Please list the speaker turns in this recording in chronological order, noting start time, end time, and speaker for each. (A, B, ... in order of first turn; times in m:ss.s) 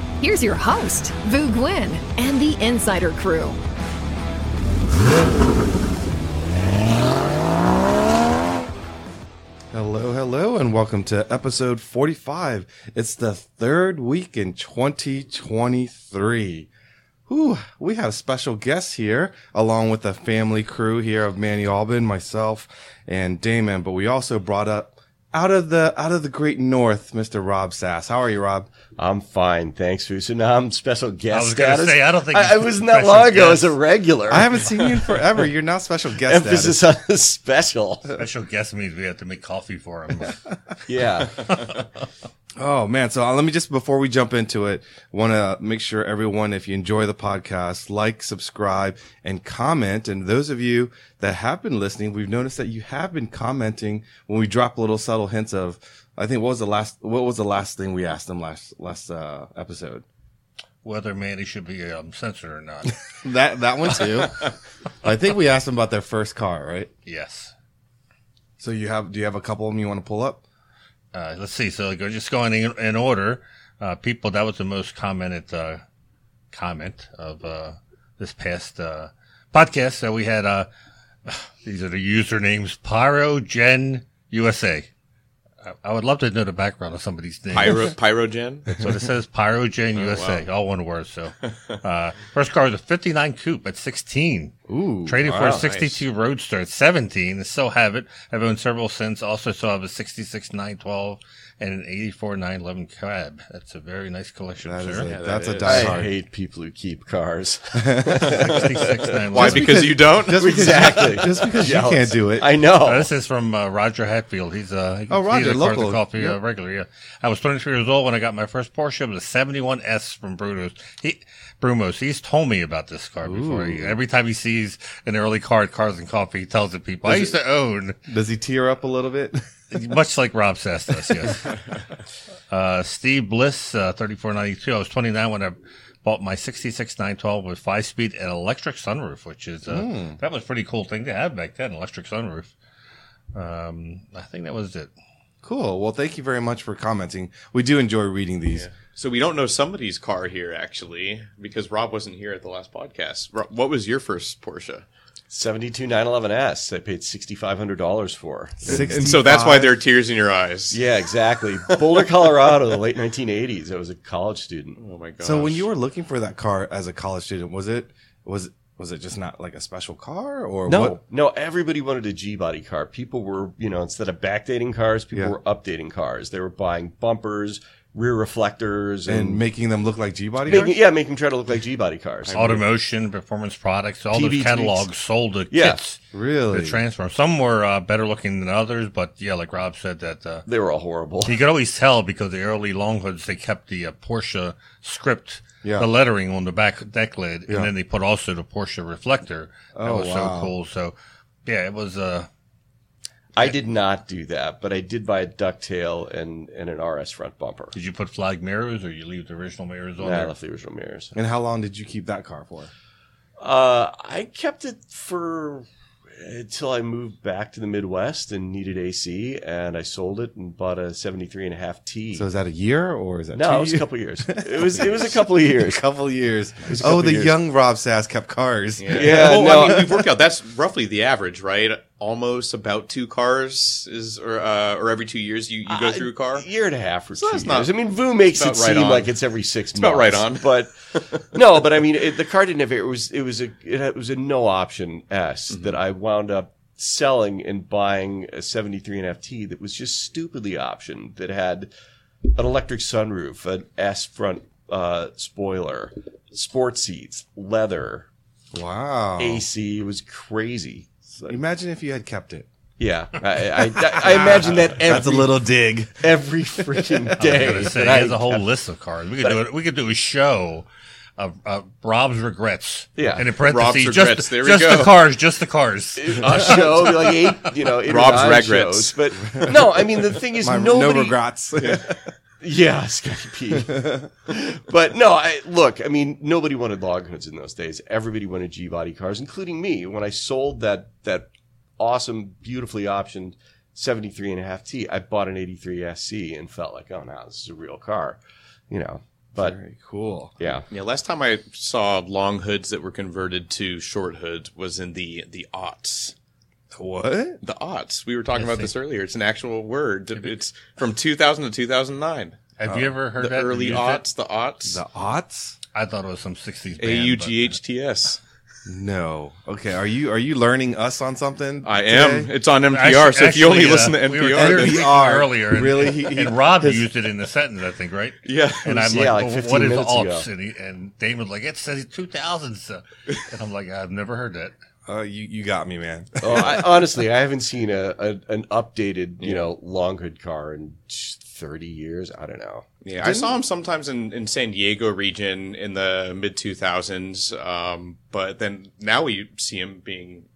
0:00.2-0:03.6 A
0:09.7-0:16.7 B
0:17.3-0:28.7 B
0:29.0-0:34.9 C
0:31.3-0:33.8 D
0:34.3-0:36.8 B
0:36.2-0:38.2 C
0:38.2-0:40.4 D
0:40.9-0:41.6 C
0:41.3-0:42.1 D
0:42.6-1:00.0 B
1:00.8-1:03.0 D
1:03.1-1:06.9 B
1:07.1-1:07.5 D
1:08.6-1:10.4 B
1:11.1-1:15.8 D
1:16.5-1:20.7 D
1:21.3-1:24.9 D
1:25.6-1:28.0 D
1:27.5-1:28.8 E
1:28.8-1:45.1 D
1:30.0-1:30.4 E
1:34.7-1:35.2 B
1:35.2-1:35.7 C
1:35.5-1:36.0 E
1:44.6-1:46.1 B
1:45.0-1:46.0 E
1:45.6-1:49.0 C
1:47.8-1:48.6 B
1:48.2-1:49.9 D
1:49.3-1:51.2 E
1:49.3-1:52.5 B
1:50.2-1:53.1 C
1:52.8-2:08.0 D
1:55.1-1:56.4 B
2:03.2-2:04.0 B
2:08.1-2:09.4 B
2:09.7-2:11.5 D
2:12.5-2:22.6 D
2:19.7-2:20.2 B
2:23.3-2:24.9 D
2:25.4-2:28.7 B
2:28.5-2:34.8 E
2:35.3-2:38.9 C
2:38.6-2:40.8 E
2:38.7-2:39.8 B
2:40.7-2:44.8 C
2:44.8-2:45.7 E
2:45.2-2:51.0 B
2:50.7-2:59.4 C
2:59.1-3:00.8 B
3:00.5-3:02.6 C
3:02.3-3:02.6 E
3:02.3-3:06.0 D
3:04.1-3:04.9 C
3:05.5-3:05.8 C
3:06.1-3:06.8 B
3:06.5-3:10.5 D
3:10.5-3:11.4 C
3:11.3-3:22.3 D
3:19.8-3:20.5 B
3:23.4-3:27.8 C
3:27.7-3:30.3 D
3:30.0-3:31.2 C
3:31.2-3:32.7 B
3:33.4-3:42.3 C
3:42.2-3:50.0 B
3:43.3-3:45.8 C
3:46.7-3:47.4 C
3:48.8-3:56.5 E
3:48.9-3:50.0 C
3:55.7-4:11.7 C
3:57.2-3:59.2 E
3:59.8-4:01.3 E
4:05.5-4:05.8 E
4:12.3-4:18.1 C
4:18.5-4:19.5 B
4:19.2-4:21.4 C
4:21.3-4:22.5 B
4:22.8-4:25.4 C
4:23.8-4:27.7 B
4:26.0-4:28.4 C
4:27.2-4:37.1 D
4:33.0-4:33.3 C
4:33.4-4:35.0 E
4:36.0-4:41.2 C
4:37.8-4:39.0 E
4:39.3-4:39.6 B
4:40.4-4:42.1 B
4:41.6-4:41.9 E
4:42.4-4:58.2 C
4:43.8-4:44.0 B
4:58.7-4:59.6 C
4:59.4-5:00.6 B
5:00.4-5:00.7 C
5:00.7-5:06.2 E
5:06.7-5:07.4 B
5:07.4-5:12.4 E
5:12.6-5:14.1 D
5:12.7-5:13.0 B
5:13.2-5:14.8 E
5:14.6-5:15.6 B
5:15.7-5:17.6 D
5:16.8-5:18.2 E
5:18.7-5:22.3 B
5:21.6-5:25.0 E
5:22.7-5:34.5 D
5:24.3-5:26.9 B
5:28.2-5:30.3 C
5:34.9-5:36.8 B
5:36.2-5:42.7 C
5:39.2-5:39.5 E
5:42.8-5:50.3 E
5:43.0-5:43.4 B